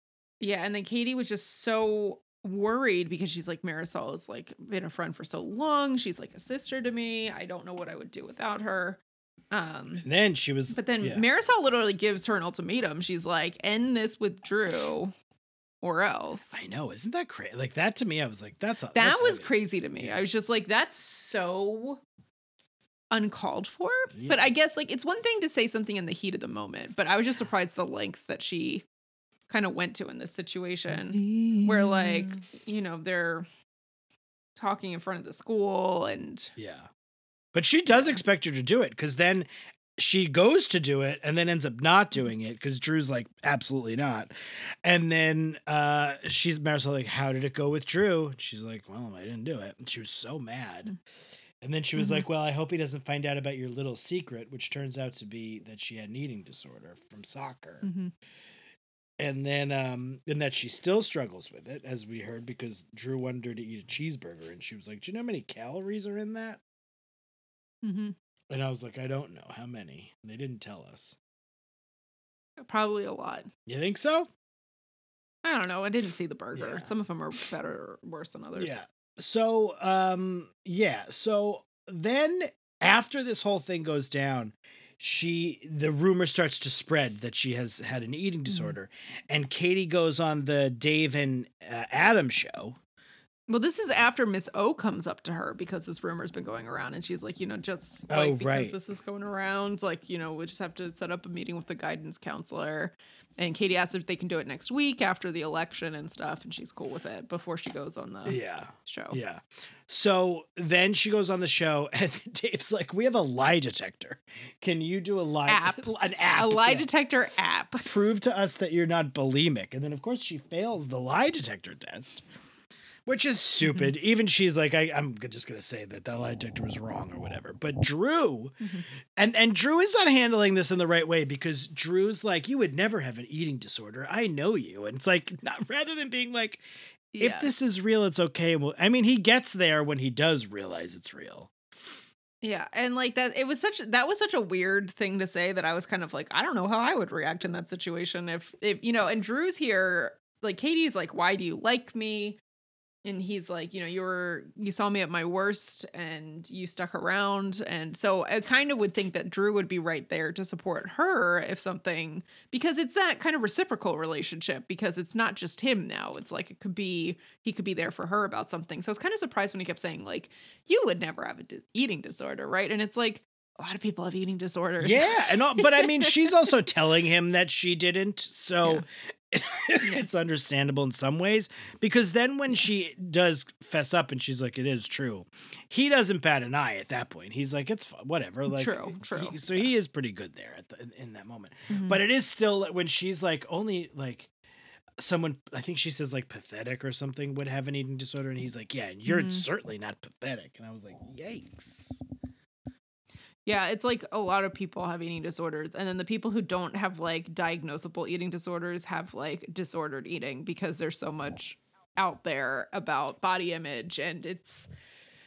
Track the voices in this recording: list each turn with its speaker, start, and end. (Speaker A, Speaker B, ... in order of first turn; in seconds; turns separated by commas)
Speaker A: 0.4-9.0, Speaker A: 9.5-10.1, Speaker B: 10.0-11.2, Speaker A: 10.7-15.1, Speaker A: 15.8-16.6, Speaker B: 16.5-20.2, Speaker A: 18.9-22.0, Speaker A: 23.1-28.8, Speaker B: 24.1-24.5, Speaker A: 29.5-33.5, Speaker B: 31.1-32.4, Speaker A: 34.5-36.5, Speaker B: 36.6-36.9, Speaker B: 37.5-44.3, Speaker B: 44.8-50.9, Speaker B: 51.6-57.9, Speaker A: 52.0-52.2, Speaker A: 57.8-58.1, Speaker B: 59.2-66.6, Speaker A: 67.8-68.2, Speaker B: 68.5-71.2, Speaker A: 72.6-73.5, Speaker B: 73.7-74.3, Speaker A: 75.4-78.8, Speaker B: 76.5-76.9, Speaker B: 78.5-92.8, Speaker A: 93.5-109.2, Speaker B: 98.1-98.7, Speaker B: 108.2-116.9, Speaker A: 115.5-117.9, Speaker B: 117.8-122.2, Speaker B: 123.0-128.6, Speaker B: 129.2-136.6, Speaker A: 137.1-137.5, Speaker B: 137.2-141.5, Speaker A: 142.4-152.4, Speaker A: 153.1-176.1, Speaker B: 174.8-194.3, Speaker A: 188.5-189.4, Speaker A: 191.7-192.0, Speaker B: 195.0-202.0, Speaker A: 199.1-199.4, Speaker A: 203.4-214.7